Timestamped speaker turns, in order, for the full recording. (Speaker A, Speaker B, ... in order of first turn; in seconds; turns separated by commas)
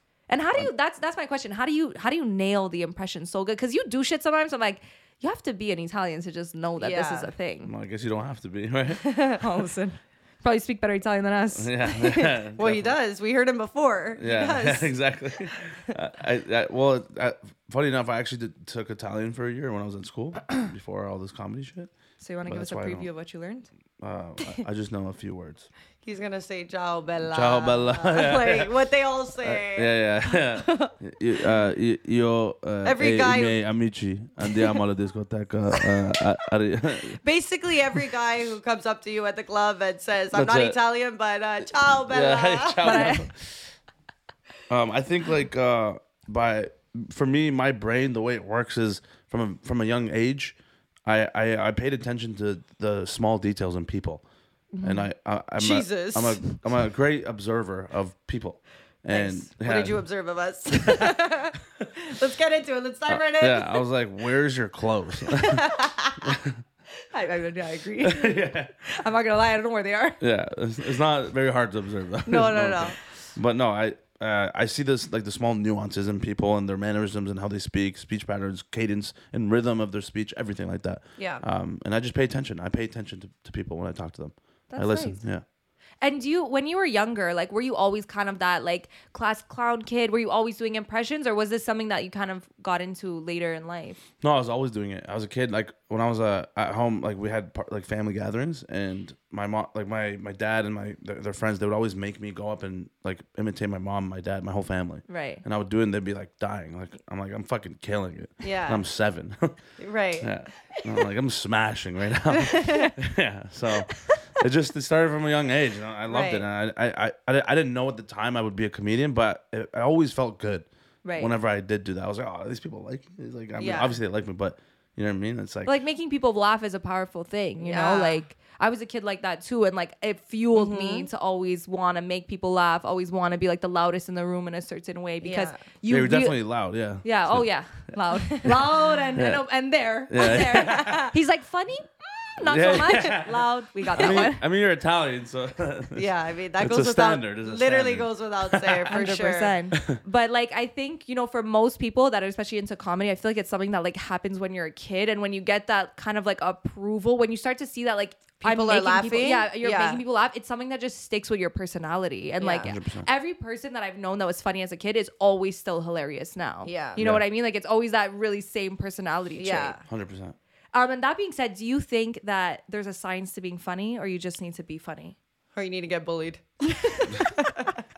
Speaker A: 0.3-7.7, Speaker B: 6.8-7.3, Speaker C: 7.7-9.0, Speaker B: 9.0-9.4, Speaker A: 9.4-12.3, Speaker C: 11.6-12.9, Speaker B: 12.6-15.0, Speaker C: 14.2-21.9, Speaker A: 22.2-23.7, Speaker C: 22.5-23.1, Speaker C: 24.0-25.7, Speaker B: 26.1-30.9, Speaker C: 27.3-28.7, Speaker C: 29.4-37.2, Speaker B: 32.8-33.6, Speaker B: 37.2-43.1, Speaker C: 40.3-40.8, Speaker C: 42.1-43.7, Speaker A: 42.8-43.3, Speaker C: 44.7-54.2, Speaker A: 54.7-55.1, Speaker C: 54.8-60.0, Speaker B: 55.6-56.5, Speaker B: 59.1-63.8, Speaker C: 60.7-61.1, Speaker C: 63.1-65.7, Speaker B: 65.3-66.4, Speaker C: 66.2-66.6, Speaker A: 67.1-70.2, Speaker C: 68.0-68.7, Speaker C: 70.2-85.4, Speaker B: 72.3-73.0, Speaker B: 81.2-81.4, Speaker A: 84.7-85.2, Speaker A: 86.0-94.0, Speaker C: 94.2-109.6, Speaker A: 105.1-105.4, Speaker B: 108.4-108.8, Speaker B: 109.8-110.3, Speaker C: 110.2-125.7, Speaker A: 112.5-112.9, Speaker A: 113.9-114.1, Speaker B: 116.1-116.5, Speaker A: 121.0-121.3, Speaker B: 123.6-124.0, Speaker A: 125.7-136.4, Speaker B: 127.6-128.2, Speaker B: 130.5-131.1, Speaker B: 135.2-135.6, Speaker C: 135.9-137.5, Speaker A: 137.0-144.4, Speaker C: 138.4-139.4, Speaker C: 140.1-141.1, Speaker B: 140.4-141.1, Speaker C: 142.4-149.0, Speaker B: 144.0-144.2, Speaker B: 145.9-149.6, Speaker A: 148.9-169.8, Speaker C: 149.7-150.0, Speaker B: 158.4-160.0, Speaker B: 162.4-162.7, Speaker C: 162.6-163.1, Speaker B: 166.7-167.0, Speaker C: 167.0-167.2, Speaker B: 169.4-169.8, Speaker C: 169.9-170.3, Speaker A: 170.7-175.2, Speaker B: 175.6-177.8